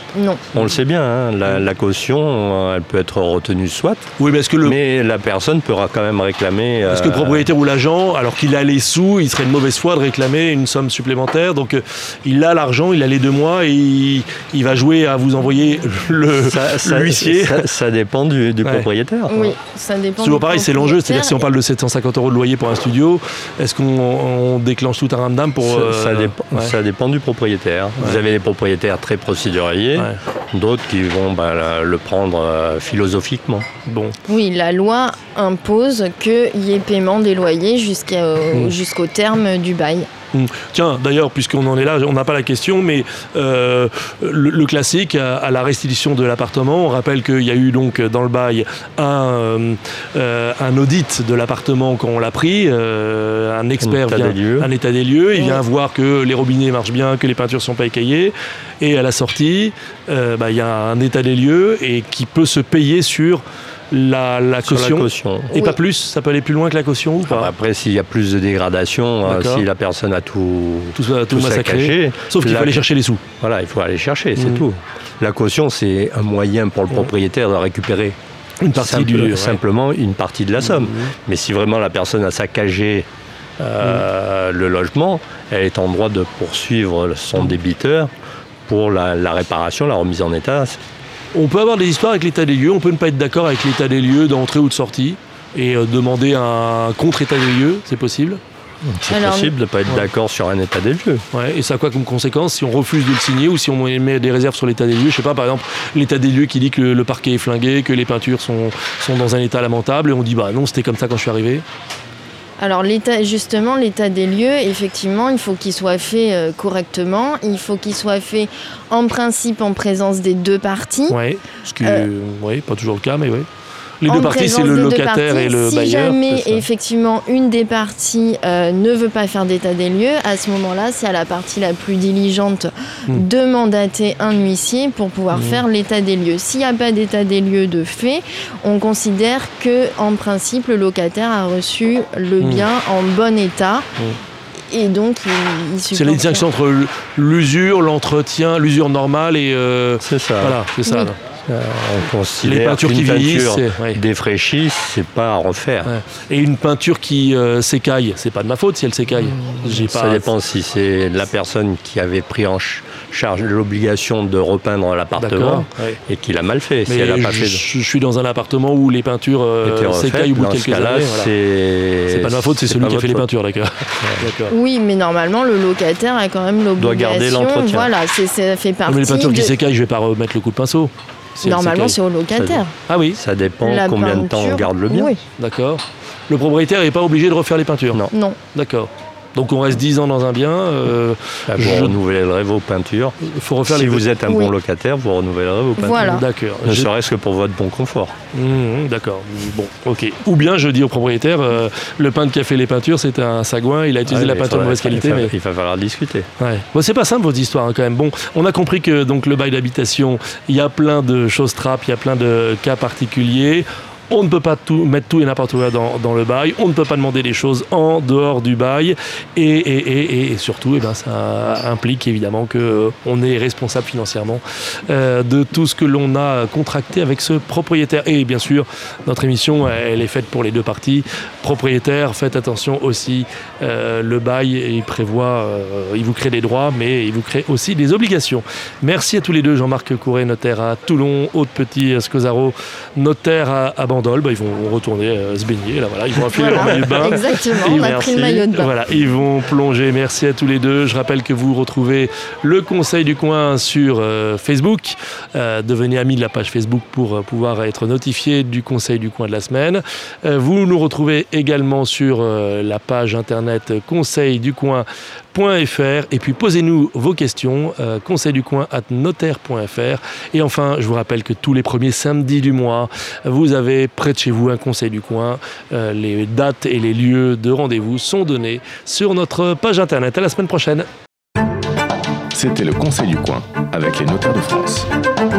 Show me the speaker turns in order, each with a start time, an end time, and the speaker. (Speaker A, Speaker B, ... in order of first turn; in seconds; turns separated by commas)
Speaker A: 0.1-0.4, Speaker B: 0.5-4.1, Speaker C: 4.2-4.8, Speaker B: 4.6-7.5, Speaker C: 6.8-17.7, Speaker B: 16.3-19.3, Speaker C: 18.6-19.5, Speaker A: 19.3-21.4, Speaker C: 20.2-26.7, Speaker B: 25.6-33.7, Speaker C: 33.9-34.1, Speaker A: 34.3-40.1, Speaker C: 40.3-67.5, Speaker B: 53.8-54.7, Speaker A: 55.4-55.6, Speaker B: 64.6-65.6, Speaker A: 65.5-65.8, Speaker B: 67.2-72.8, Speaker C: 69.2-69.7, Speaker C: 70.9-73.2, Speaker B: 73.4-78.2, Speaker C: 74.4-74.6, Speaker C: 78.6-79.6, Speaker B: 78.7-83.1, Speaker C: 80.6-81.1, Speaker B: 83.6-88.1, Speaker B: 88.7-90.8, Speaker C: 91.3-98.4, Speaker B: 98.8-101.2, Speaker A: 99.1-99.5, Speaker C: 101.3-111.6, Speaker A: 112.6-121.2, Speaker C: 121.1-123.5, Speaker A: 121.8-122.1, Speaker C: 124.0-126.2, Speaker A: 124.0-143.9, Speaker B: 126.3-126.6, Speaker C: 135.3-135.6, Speaker C: 142.4-142.7, Speaker A: 144.7-146.4, Speaker C: 145.9-151.2, Speaker B: 150.0-150.6, Speaker A: 150.8-151.1, Speaker B: 151.5-155.9, Speaker C: 152.4-154.0, Speaker C: 155.8-160.3, Speaker B: 159.6-167.6, Speaker C: 165.2-166.0, Speaker C: 166.9-171.3, Speaker B: 169.6-173.2, Speaker C: 172.1-174.5, Speaker B: 174.0-174.3, Speaker A: 174.5-179.5, Speaker B: 176.8-177.9, Speaker C: 178.8-182.0, Speaker A: 181.4-182.7, Speaker B: 182.3-182.6, Speaker C: 182.9-183.2, Speaker B: 183.1-185.1, Speaker A: 183.6-185.2, Speaker C: 185.4-192.0, Speaker A: 188.1-188.4, Speaker B: 191.5-198.1, Speaker C: 193.2-194.1, Speaker A: 194.2-194.5, Speaker A: 195.8-196.2, Speaker C: 195.9-196.9, Speaker C: 198.3-205.3, Speaker B: 204.1-206.3, Speaker C: 206.4-280.9, Speaker B: 246.3-248.5, Speaker A: 246.3-248.7, Speaker D: 282.3-284.9